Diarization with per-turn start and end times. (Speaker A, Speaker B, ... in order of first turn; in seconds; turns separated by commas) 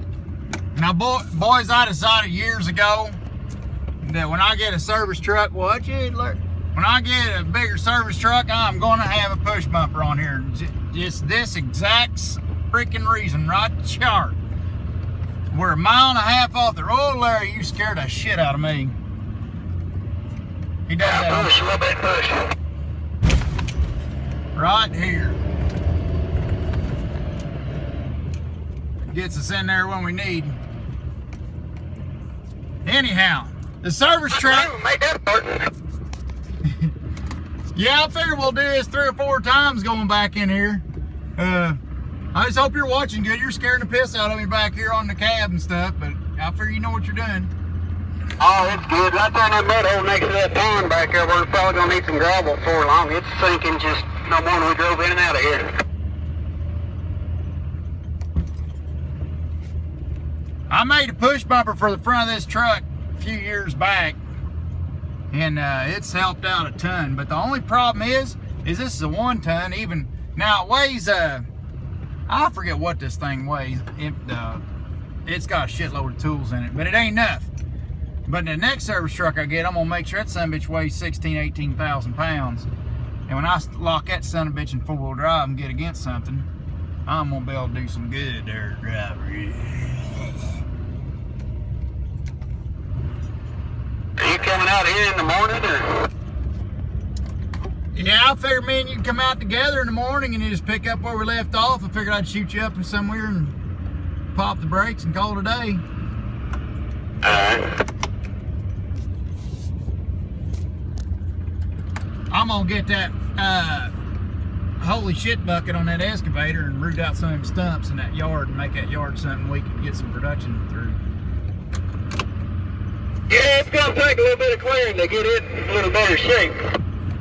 Speaker A: 0.8-3.2, Speaker A: 4.0-14.4, Speaker A: 15.5-19.0, Speaker A: 20.9-21.5, Speaker B: 21.0-22.5, Speaker A: 24.5-25.4, Speaker A: 29.1-30.6, Speaker A: 32.9-34.7, Speaker B: 34.3-35.7, Speaker A: 36.7-36.9, Speaker A: 37.7-40.8, Speaker A: 41.4-41.8, Speaker A: 42.3-47.5, Speaker B: 48.4-55.8, Speaker A: 60.7-64.2, Speaker A: 65.3-71.5, Speaker A: 72.3-74.6, Speaker A: 75.3-77.5, Speaker A: 78.3-82.7, Speaker A: 83.3-86.5, Speaker A: 87.1-90.4, Speaker B: 94.2-96.1, Speaker A: 97.9-103.6, Speaker A: 104.3-105.8, Speaker B: 107.2-107.7, Speaker A: 112.3-113.9, Speaker A: 114.8-121.0, Speaker B: 123.3-126.6